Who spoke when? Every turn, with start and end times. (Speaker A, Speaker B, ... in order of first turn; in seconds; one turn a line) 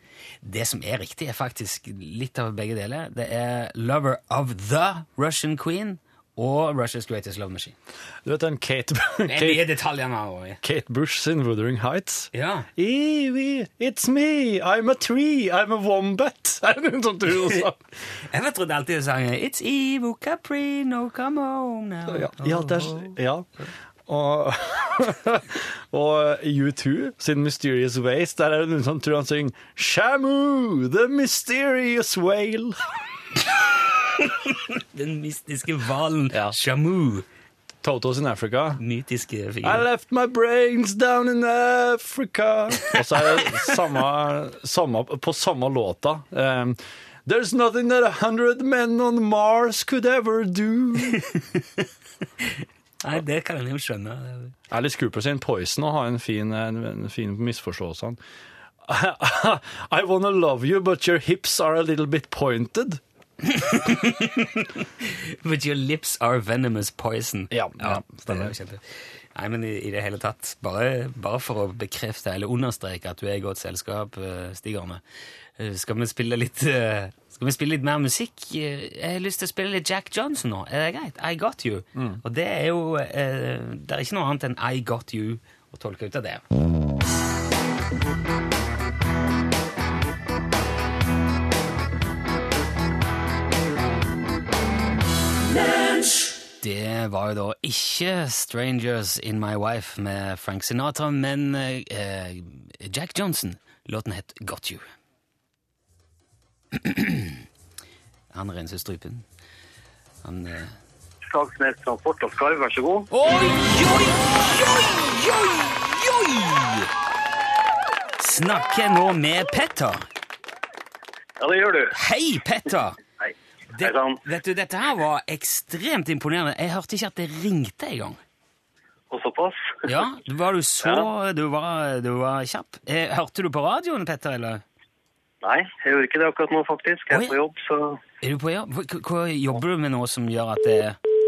Speaker A: 0.4-7.8
Speaker B: 8.2-9.7
Speaker A: 9.2-10.6
Speaker B: 10.6-17.8
Speaker A: 12.3-12.7
Speaker A: 17.3-23.1
Speaker B: 22.1-23.5
Speaker B: 24.1-32.9
Speaker A: 34.2-37.2
Speaker B: 37.8-38.8
Speaker A: 38.8-39.8
Speaker B: 39.6-51.2
Speaker A: 51.3-51.8
Speaker A: 52.4-54.5
Speaker B: 54.7-58.2
Speaker B: 58.8-63.0
Speaker A: 63.4-68.8
Speaker B: 67.5-68.5
Speaker A: 69.3-75.0
Speaker A: 75.6-86.4
Speaker B: 81.9-82.2
Speaker A: 96.6-104.8
Speaker A: 106.8-107.4
Speaker A: 108.3-109.2
Speaker A: 110.2-110.7
Speaker C: 111.3-113.1
Speaker A: 113.1-116.9
Speaker A: 118.2-120.0
Speaker C: 121.4-121.9
Speaker A: 121.9-123.0
Speaker A: 123.7-128.2
Speaker C: 123.8-124.2
Speaker C: 129.1-129.7
Speaker A: 129.9-134.6
Speaker C: 135.4-138.0
Speaker A: 137.1-137.4
Speaker A: 138.2-141.0